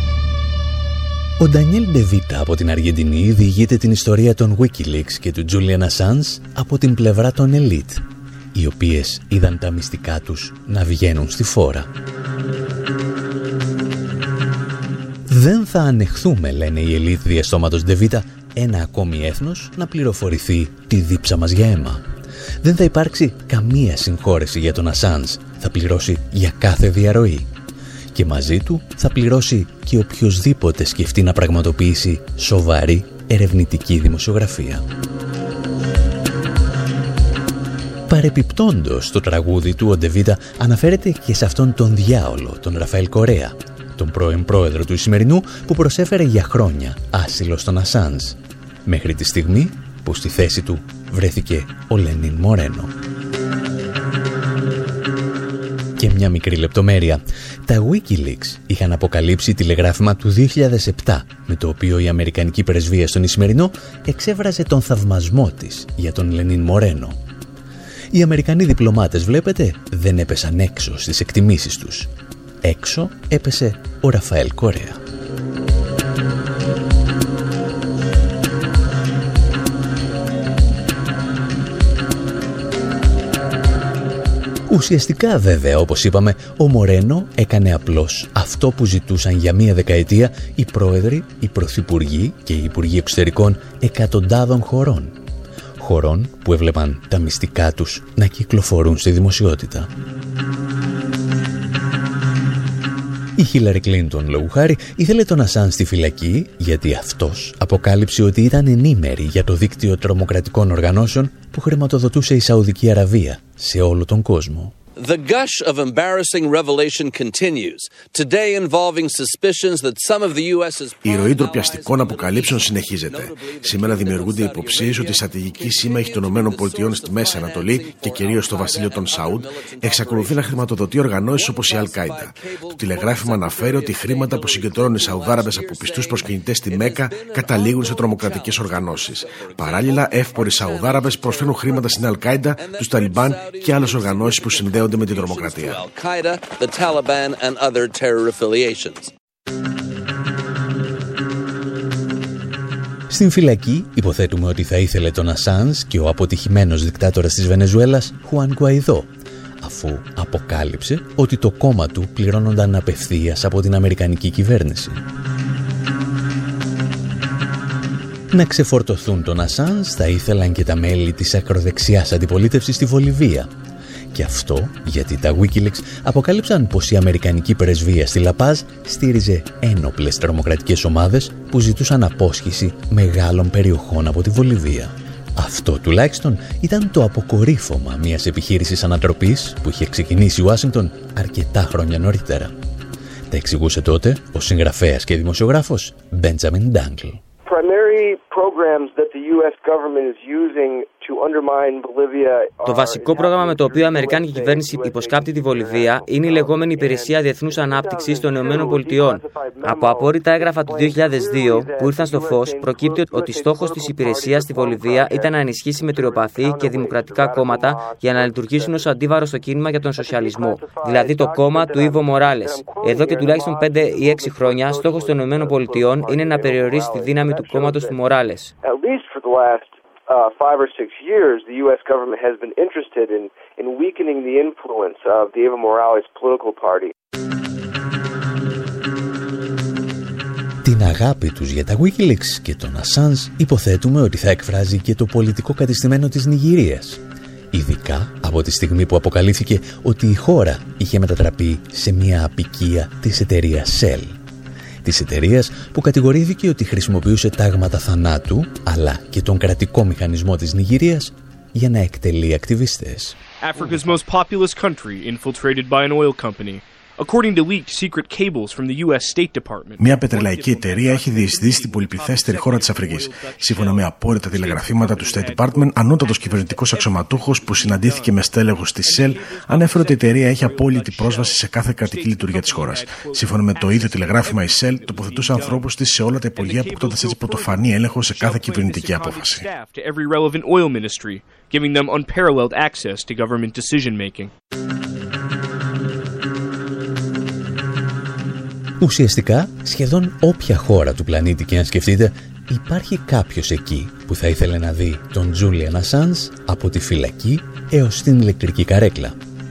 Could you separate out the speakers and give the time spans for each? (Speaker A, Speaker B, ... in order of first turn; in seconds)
Speaker A: 1.4-11.9, 15.3-22.0, 22.6-27.5, 28.1-34.9, 38.1-52.9, 56.0-67.2, 68.1-72.1, 72.6-75.0, 84.7-95.2, 95.8-99.9, 103.4-114.7, 153.1-165.0, 168.3-173.5, 174.1-192.6, 193.3-197.2, 240.6-254.2, 254.8-263.2, 298.8-309.2
Speaker B: 115.0-149.1
Speaker C: 121.0-145.8, 269.8-289.5
Speaker D: 197.4-218.9, 219.9-228.0, 228.6-236.9
Speaker E: 202.7-228.5
Speaker F: 263.4-285.8, 286.3-294.3